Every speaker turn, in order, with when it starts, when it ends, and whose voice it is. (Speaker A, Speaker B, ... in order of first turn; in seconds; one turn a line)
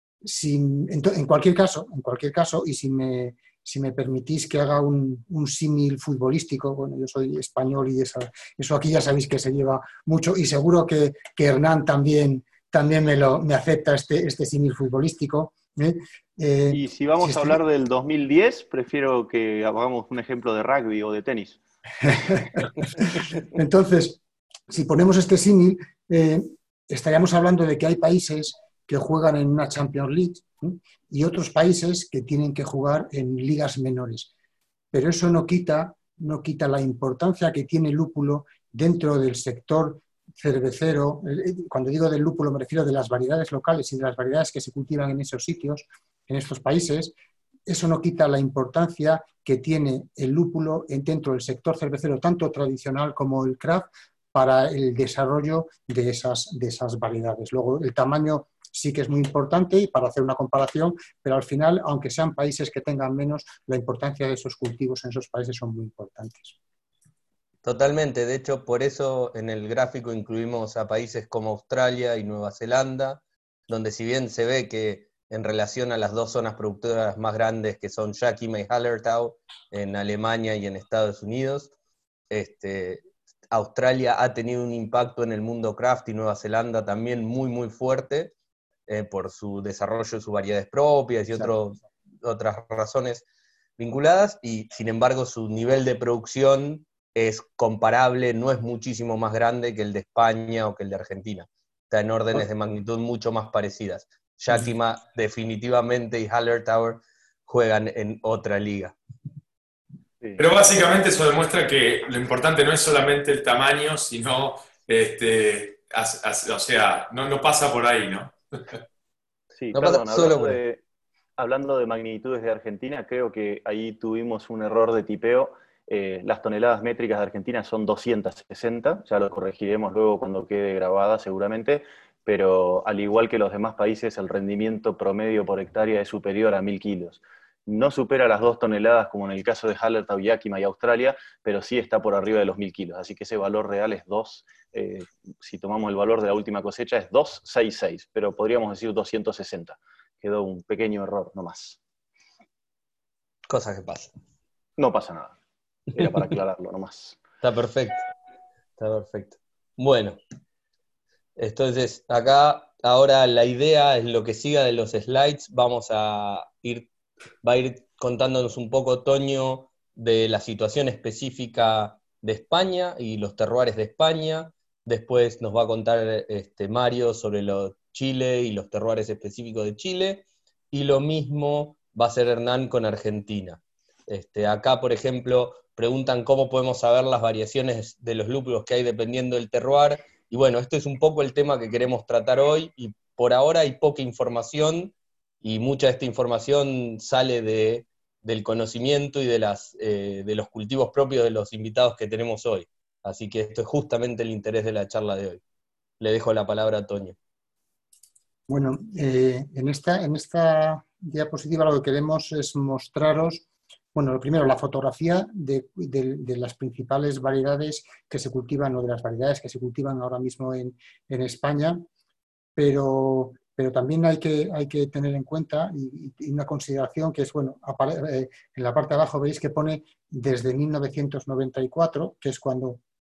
Speaker A: 0.2-17.6
Speaker B: 16.7-21.6
Speaker A: 22.0-34.3
Speaker A: 34.9-47.1
Speaker A: 47.7-66.5
Speaker C: 67.6-81.7
Speaker C: 82.3-88.3
Speaker C: 88.9-93.2
Speaker C: 93.8-108.9
Speaker D: 110.4-118.8
Speaker B: 119.6-120.8
Speaker C: 119.7-120.6
Speaker B: 121.4-151.8
Speaker C: 153.5-154.1
Speaker B: 154.8-155.3
Speaker B: 155.9-157.2
Speaker C: 157.4-158.0
Speaker C: 158.8-160.2
Speaker C: 161.4-166.9
Speaker C: 167.4-205.4
Speaker C: 206.0-207.2
Speaker A: 208.5-221.8
Speaker A: 222.6-232.8